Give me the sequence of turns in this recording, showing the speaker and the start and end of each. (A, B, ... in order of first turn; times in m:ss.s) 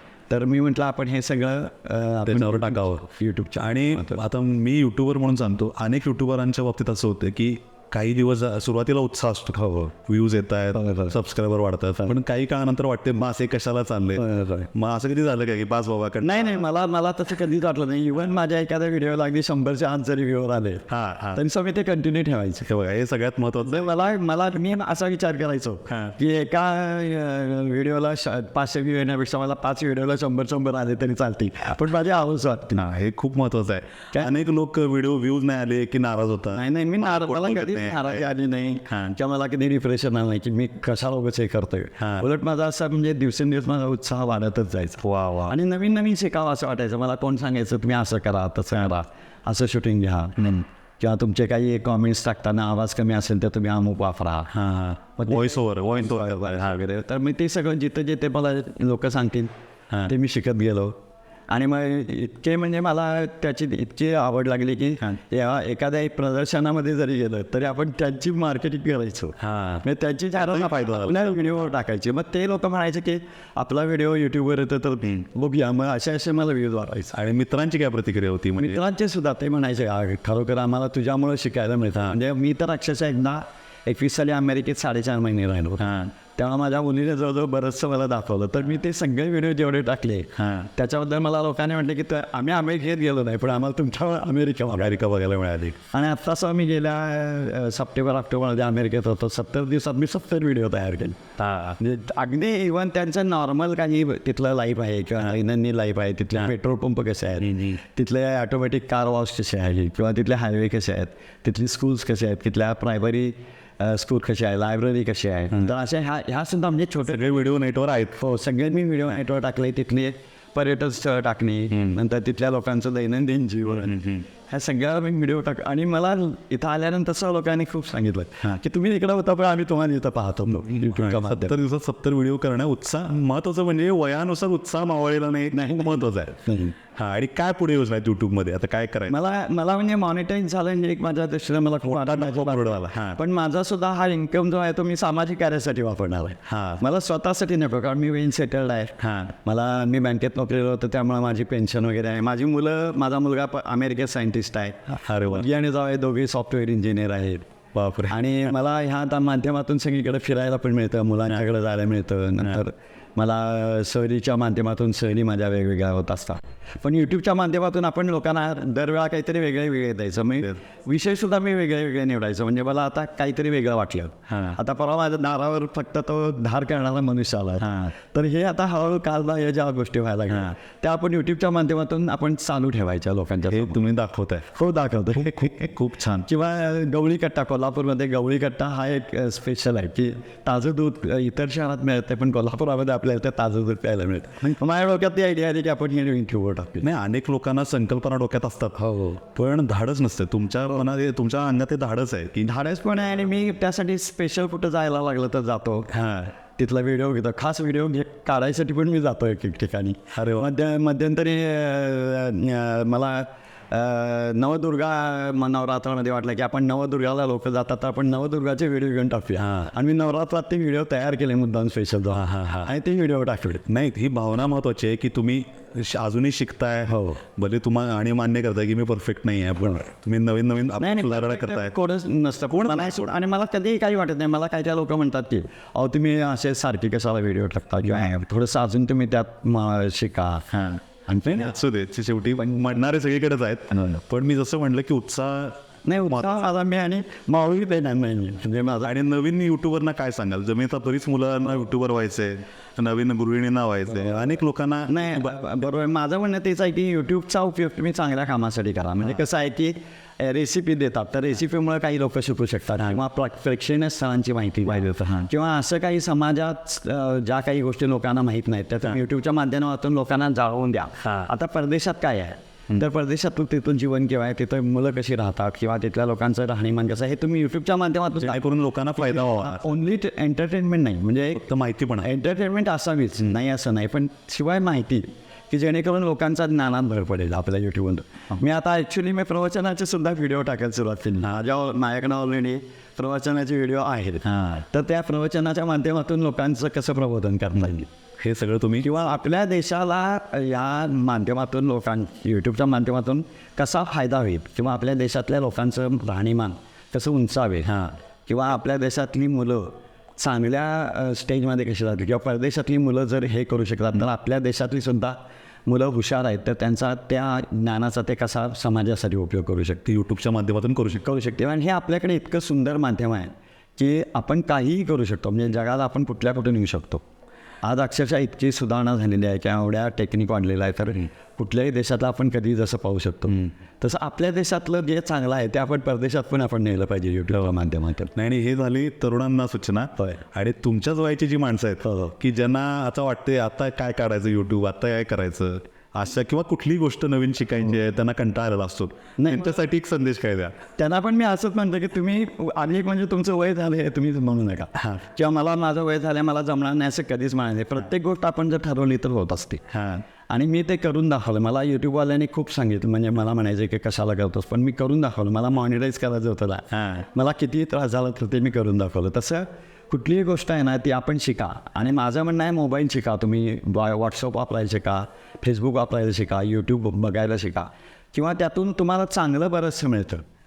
0:00.3-0:04.2 A
0:02.2-0:16.6 B
0:09.5-0:09.9 A
0:10.7-0:11.1 A
0:14.2-0:14.7 A
0:16.2-0:22.7 A
0:20.9-0:21.4 B
0:22.6-0:23.9 B
0:23.6-0:32.8 A
0:32.7-0:38.2 B
0:36.5-0:54.5 A
0:38.9-0:39.2 B
0:42.0-0:42.2 B
0:45.0-0:45.5 B
0:54.5-0:56.8 B
0:55.2-0:59.5 A
1:00.0-1:01.0 A
1:01.5-1:17.1 A
1:09.4-1:09.8 B
1:10.4-1:11.4 B
1:17.1-1:18.8 B
1:18.6-1:35.0 A
1:25.8-1:26.1 B
1:30.4-1:30.7 B
1:34.7-1:35.8 B
1:35.9-1:41.2 A
1:41.4-1:41.8 B
1:41.8-1:57.2 A
1:47.4-1:47.8 B
1:57.1-1:58.2 B
1:58.2-2:11.6 A
2:03.8-2:04.2 B
2:10.9-2:16.4 B
2:15.5-2:16.8 A
2:17.0-2:19.1 B
2:19.1-2:37.4 A
2:21.8-2:23.2 B
2:26.4-2:26.8 B
2:29.0-2:29.3 B
2:35.0-2:35.4 B
2:37.7-2:38.2 B
2:38.1-3:03.8 A
2:54.3-2:54.6 B
2:57.6-2:57.9 B
3:00.3-3:00.5 B
3:03.5-3:04.5 B
3:04.5-3:05.7 A
3:05.2-3:06.3 B
3:06.2-3:16.9 A
3:16.8-3:22.5 B
3:18.8-3:19.2 A
3:22.4-3:25.9 A
3:25.9-3:26.3 B
3:26.6-3:43.6 A
3:30.1-3:30.5 B
3:39.4-3:39.7 B
3:42.1-3:42.7 B
3:43.6-3:51.7 B
3:46.9-3:47.2 A
3:50.8-4:00.5 A
3:52.5-3:53.0 B
4:00.5-4:05.6 B
4:01.1-4:01.5 A
4:05.8-4:08.9 A
4:08.8-4:15.4 B
4:14.9-4:38.4 A
4:24.8-4:25.3 B
4:31.0-4:31.3 B
4:38.2-4:39.7 B
4:39.0-4:41.5 A
4:41.3-4:42.1 B
4:42.0-4:57.9 A
4:54.2-4:54.6 B
4:58.2-4:58.9 B
4:58.8-5:07.7 A
5:07.6-5:08.0 B
5:08.2-5:19.8 A
5:19.8-5:21.0 B
5:20.9-5:27.0 A
5:27.6-5:38.1 A
5:38.1-5:50.6 B
5:41.8-5:42.1 A
5:49.2-5:49.5 A
5:50.8-5:59.6 A
5:54.8-5:55.0 B
5:59.7-6:00.0 B
6:00.3-6:20.2 A
6:06.7-6:07.1 B